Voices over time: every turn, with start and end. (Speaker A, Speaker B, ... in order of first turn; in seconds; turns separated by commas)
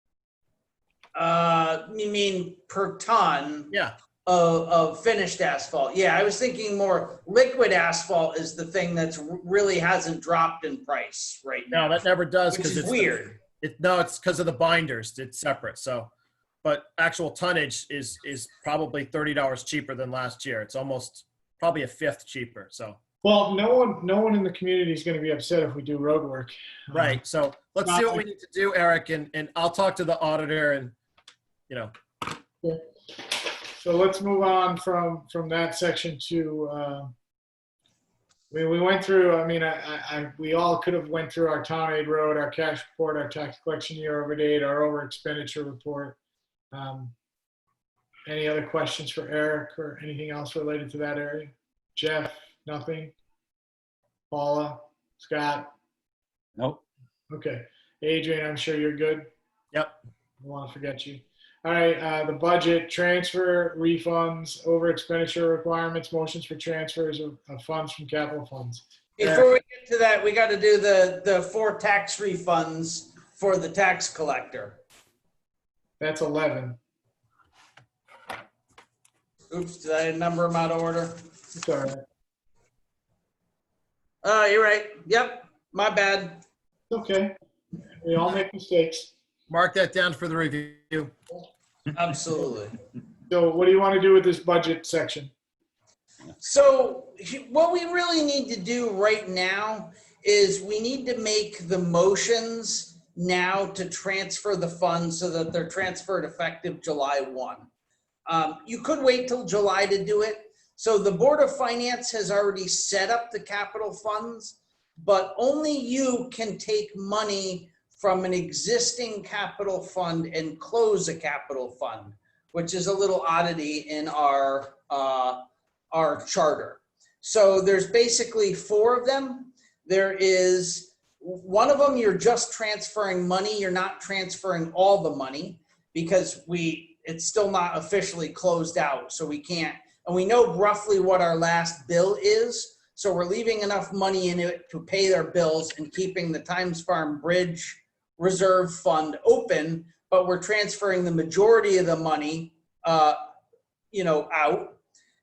Speaker A: 1.1-3.7, Speaker A: 4.2-11.9, Speaker B: 11.7-16.1, Speaker A: 12.5-13.4, Speaker B: 16.6-23.0, Speaker C: 23.2-27.2, Speaker B: 26.9-30.9, Speaker C: 27.9-28.2, Speaker C: 33.8-37.1, Speaker C: 38.5-46.2, Speaker C: 46.7-47.1, Speaker C: 48.3-53.1, Speaker C: 54.3-55.7, Speaker C: 57.3-59.3, Speaker C: 60.4-68.8, Speaker A: 69.2-74.8, Speaker B: 69.2-69.5, Speaker C: 76.0-76.8, Speaker A: 79.5-81.2, Speaker C: 81.5-82.0, Speaker A: 84.2-86.4, Speaker C: 86.9-87.3, Speaker C: 88.0-89.1, Speaker B: 89.5-91.1, Speaker A: 91.9-92.8, Speaker C: 93.3-95.3, Speaker A: 96.4-107.7, Speaker A: 108.3-153.2, Speaker A: 153.9-154.8